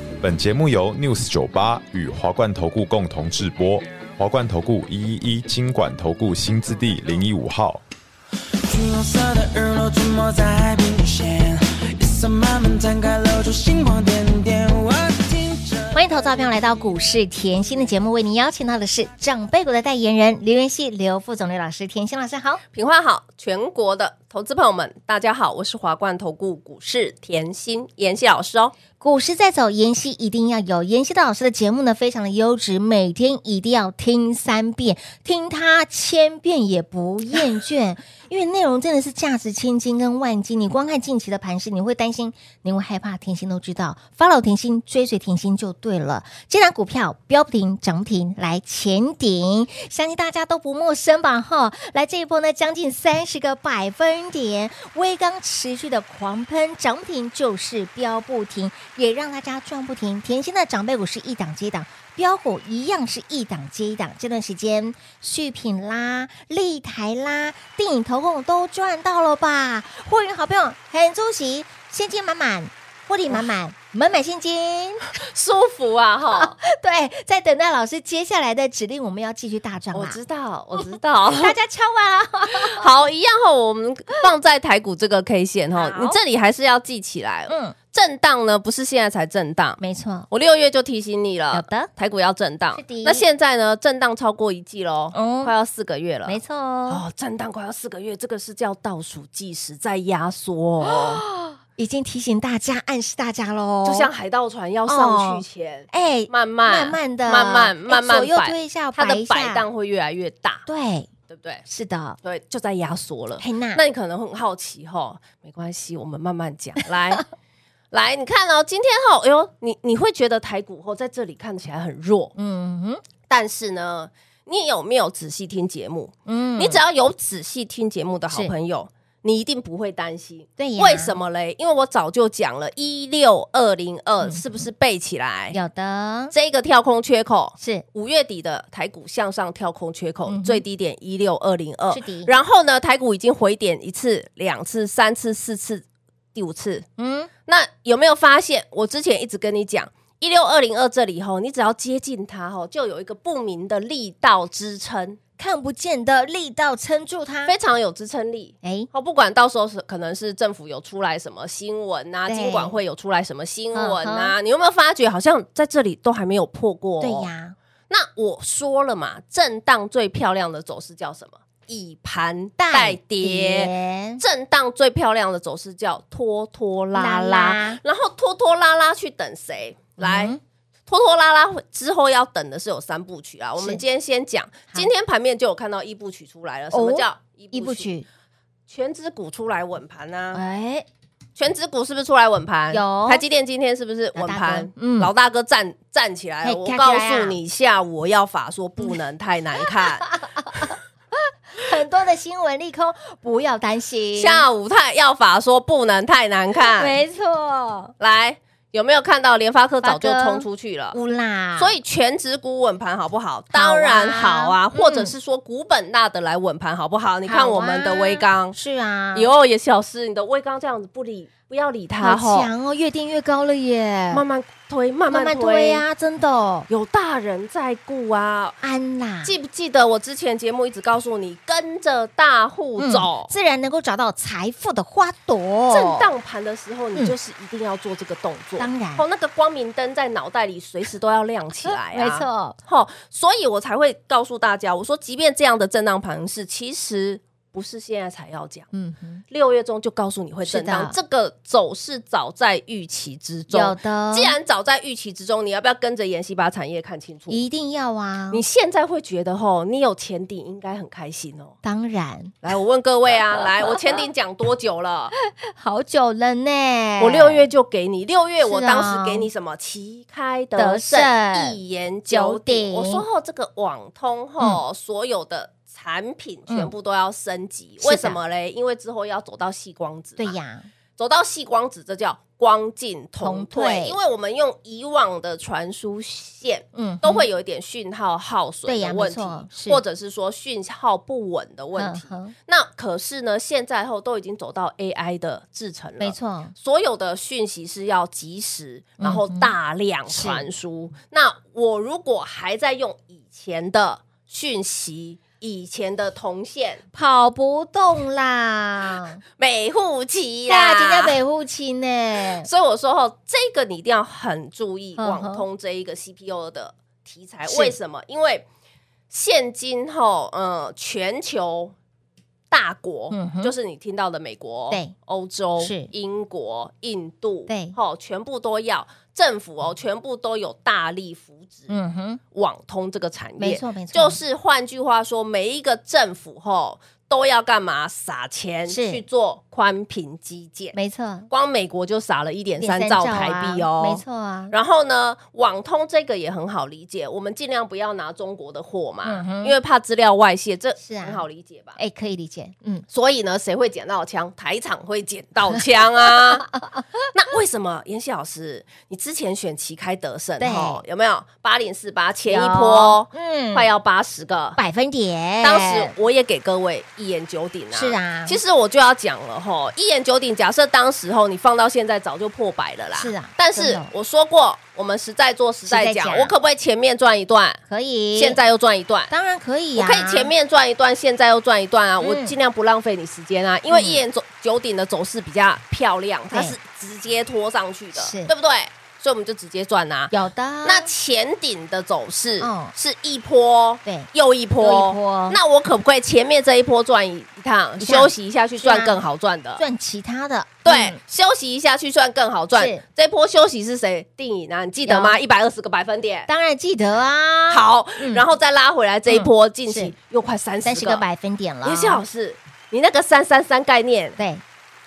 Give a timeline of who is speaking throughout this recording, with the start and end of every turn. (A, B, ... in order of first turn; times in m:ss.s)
0:00.2-0:07.8 A
0:08.7-0:16.0 B
0:15.9-0:22.6 C
0:22.7-0:28.7 D
0:29.0-1:15.1 C
1:15.2-1:16.6 D
1:16.3-1:20.2 C
1:19.9-1:21.6 D
1:21.3-1:22.8 C
1:22.5-1:29.8 D
1:25.7-1:26.2 C
1:27.5-1:27.8 C
1:29.8-1:30.3 C
1:30.3-1:41.2 D
1:31.5-1:31.9 C
1:32.7-1:33.2 C
1:35.1-1:35.5 C
1:36.3-1:37.0 C
1:40.8-1:44.1 C
1:43.8-1:50.6 D
1:44.9-1:49.7 C
1:50.7-1:51.1 C
1:51.3-1:51.6 D
1:51.7-1:52.2 C
1:52.2-1:57.2 D
1:53.4-1:53.8 C
1:57.9-2:02.3 D
2:02.4-2:03.0 C
2:03.3-2:15.6 D
2:06.3-2:06.8 C
2:10.6-2:11.1 C
2:14.2-2:14.6 C
2:15.5-2:16.3 C
2:16.3-2:26.8 D
2:17.6-2:17.8 C
2:20.3-2:20.6 C
2:21.9-2:22.3 C
2:27.0-2:27.3 C
2:27.5-2:35.2 D
2:35.4-2:37.6 C
2:37.5-2:47.3 D
2:38.6-2:38.9 C
2:42.3-2:42.8 C
2:43.7-2:44.4 C
2:47.0-2:47.6 C
2:47.9-3:00.3 D
2:52.6-2:54.2 C
2:57.0-2:57.8 C
3:00.0-3:00.4 C
3:00.9-3:07.9 D
3:06.7-3:08.0 C
3:08.7-3:10.4 D
3:10.3-3:10.9 C
3:11.4-3:20.1 D
3:12.7-3:13.2 C
3:14.2-3:15.1 C
3:16.4-3:17.4 C
3:20.0-3:20.8 C
3:21.6-3:24.4 C
3:24.2-3:27.0 D
3:26.6-3:27.9 C
3:28.0-3:31.0 D
3:29.8-3:31.7 C
3:31.6-3:38.6 D
3:33.5-3:35.1 C
3:37.3-3:39.3 C
3:39.1-3:42.5 D
3:42.0-3:44.2 C
3:44.1-3:45.8 D
3:45.1-3:46.7 C
3:46.7-3:48.6 D
3:48.6-3:49.4 C
3:49.2-3:53.3 D
3:52.8-3:56.1 C
3:55.7-4:08.7 D
3:58.6-3:59.0 C
4:01.6-4:02.6 C
4:08.7-4:09.2 C
4:09.3-4:17.4 D
4:10.5-4:11.0 C
4:13.5-4:14.4 C
4:17.3-4:18.4 C
4:18.3-4:21.6 D
4:21.6-4:22.4 C
4:22.4-4:25.1 D
4:23.4-4:23.8 C
4:25.3-4:27.5 C
4:27.0-4:40.4 D
4:28.4-4:29.3 C
4:30.6-4:33.0 C
4:37.8-4:38.2 C
4:40.2-4:40.7 C
4:41.0-5:06.8 D
4:43.2-4:44.0 C
4:46.7-4:47.3 C
4:48.7-4:49.8 C
4:51.8-4:52.4 C
4:56.0-4:56.5 C
4:59.0-4:59.5 C
5:00.1-5:00.5 C
5:06.9-5:09.2 C
5:09.4-5:11.2 D
5:10.5-5:12.5 C
5:12.4-5:18.4 D
5:15.0-5:15.5 C
5:17.5-5:17.8 C
5:19.1-5:21.7 D
5:22.5-5:31.7 D
5:23.1-5:23.5 C
5:25.6-5:25.9 C
5:27.5-5:27.8 C
5:31.7-5:32.2 C
5:32.3-5:40.8 D
5:33.4-5:34.2 C
5:38.7-5:39.0 C
5:40.7-5:41.3 C
5:41.3-5:51.8 D
5:42.6-5:44.5 C
5:49.0-5:49.6 C
5:50.8-5:51.2 C
5:51.8-5:52.9 C
5:52.9-5:56.5 D
5:55.6-5:56.8 C
5:57.1-6:04.6 D
6:00.4-6:00.8 C
6:02.3-6:03.7 C
6:04.6-6:05.9 C
6:05.4-6:17.6 D
6:07.7-6:08.4 C
6:13.0-6:13.9 C
6:15.7-6:16.4 C
6:17.7-6:18.4 C
6:18.2-6:19.1 D
6:19.1-6:20.3 C
6:19.8-6:30.1 D
6:22.0-6:22.4 C
6:23.7-6:24.0 C
6:26.3-6:26.6 C
6:28.0-6:28.3 C
6:30.1-6:30.9 C
6:30.6-6:39.6 D
6:32.4-6:32.7 C
6:34.6-6:35.4 C
6:37.8-6:39.0 C
6:39.6-6:41.0 C
6:40.6-6:46.3 D
6:42.5-6:42.8 C
6:44.9-6:45.2 C
6:46.3-6:48.2 C
6:47.5-6:51.0 D
6:49.1-6:49.9 C
6:50.6-6:52.0 C
6:51.6-6:54.2 D
6:54.2-6:54.4 C